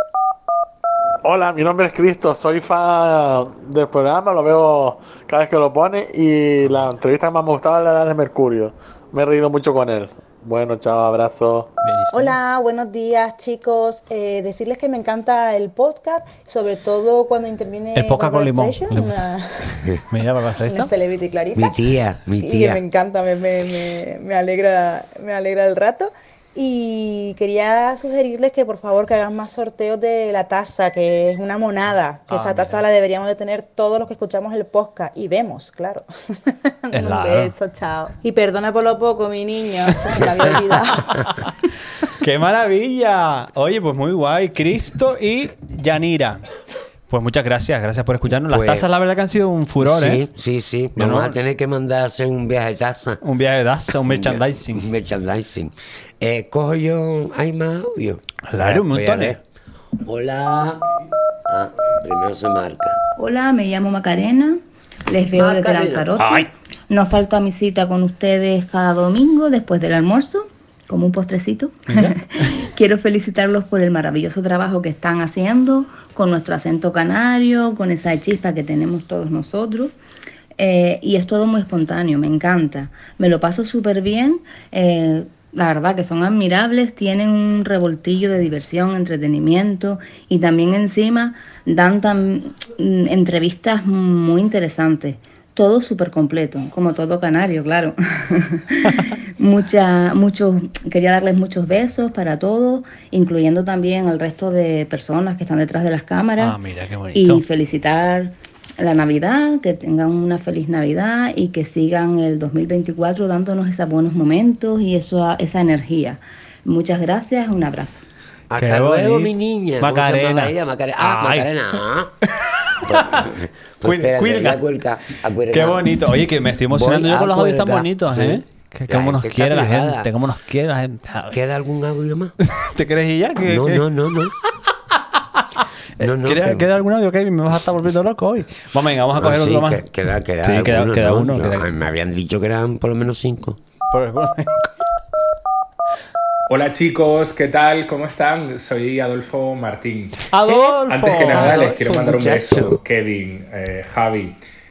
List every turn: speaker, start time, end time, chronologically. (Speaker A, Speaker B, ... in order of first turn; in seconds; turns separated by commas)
Speaker A: 1.2-11.7, Speaker B: 11.8-12.3, Speaker C: 12.1-20.0, Speaker B: 17.9-19.2, Speaker B: 20.1-20.9, Speaker C: 20.6-21.9, Speaker D: 21.5-22.8, Speaker C: 22.4-41.4, Speaker B: 32.3-32.8, Speaker B: 36.9-37.5, Speaker B: 41.2-41.5, Speaker B: 42.1-46.4, Speaker B: 47.1-50.2, Speaker D: 48.5-48.9, Speaker D: 49.8-53.2, Speaker B: 51.0-51.4, Speaker B: 53.2-54.9, Speaker D: 54.0-59.4, Speaker B: 58.5-59.4, Speaker D: 60.0-60.9, Speaker D: 61.5-63.0, Speaker E: 63.2-79.9, Speaker D: 65.3-66.5, Speaker B: 71.9-72.2, Speaker E: 80.6-106.6, Speaker B: 106.4-107.4, Speaker E: 107.1-118.0, Speaker D: 118.5-122.1, Speaker B: 118.6-121.5, Speaker B: 122.3-123.3, Speaker D: 122.8-126.0, Speaker B: 123.8-124.6, Speaker B: 125.5-131.4, Speaker D: 126.7-130.1, Speaker D: 131.3-132.3, Speaker B: 132.4-133.8, Speaker D: 133.4-134.3, Speaker D: 136.0-136.7, Speaker B: 136.0-139.8, Speaker D: 139.1-143.6, Speaker B: 140.4-141.7, Speaker B: 143.9-144.7, Speaker F: 146.5-150.3, Speaker B: 150.3-151.8, Speaker F: 150.8-154.4, Speaker D: 151.3-152.8